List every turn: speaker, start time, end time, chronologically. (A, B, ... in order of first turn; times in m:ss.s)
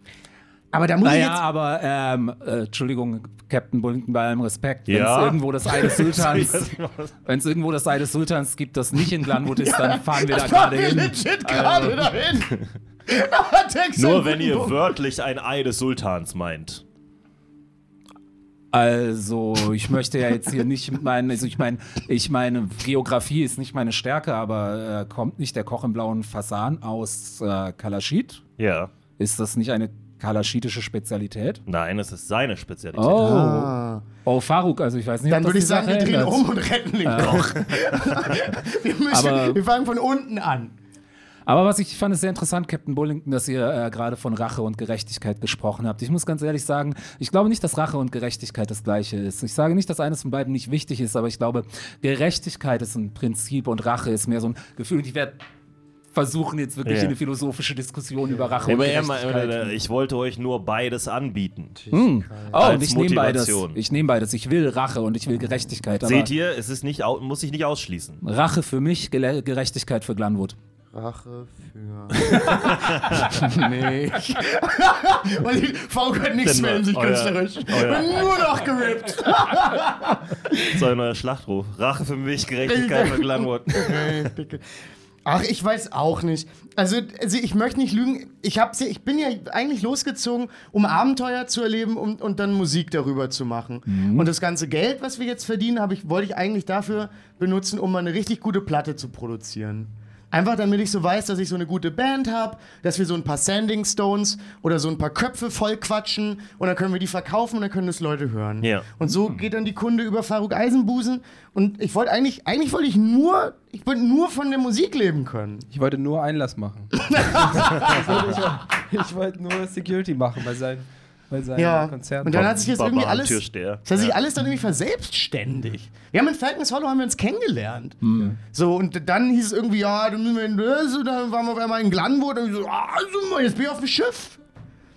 0:00.7-0:01.4 A
0:01.0-0:12.1 B
0:04.9-0:07.1 C
0:09.5-0:14.8 A
0:14.0-0:16.8 C
0:18.7-0:28.4 B
0:28.6-0:28.9 C
0:29.2-0:31.6 B
0:31.7-0:33.2 C
0:33.0-0:33.7 B
0:33.2-0:34.0 A
0:34.2-0:36.4 B
0:35.3-0:40.8 A
0:37.0-0:37.9 B
0:39.1-0:39.6 B
0:41.5-0:55.4 B
0:56.1-0:59.8 B
0:56.8-0:57.1 C
0:58.3-0:58.8 A
0:58.6-1:01.8 C
1:01.8-1:02.7 A
1:01.9-1:06.3 B
1:02.6-1:03.8 C
1:06.0-1:08.2 C
1:08.2-1:10.6 B
1:10.9-1:20.8 A
1:12.3-1:13.3 C
1:16.4-1:18.3 C
1:20.5-1:24.3 C
1:22.6-1:55.7 A
1:33.9-1:34.3 B
1:48.6-1:48.9 C
1:49.1-1:49.4 B
1:55.7-2:02.6 D
1:57.0-1:58.5 A
2:01.6-2:14.4 A
2:02.3-2:04.2 C
2:08.0-2:08.4 B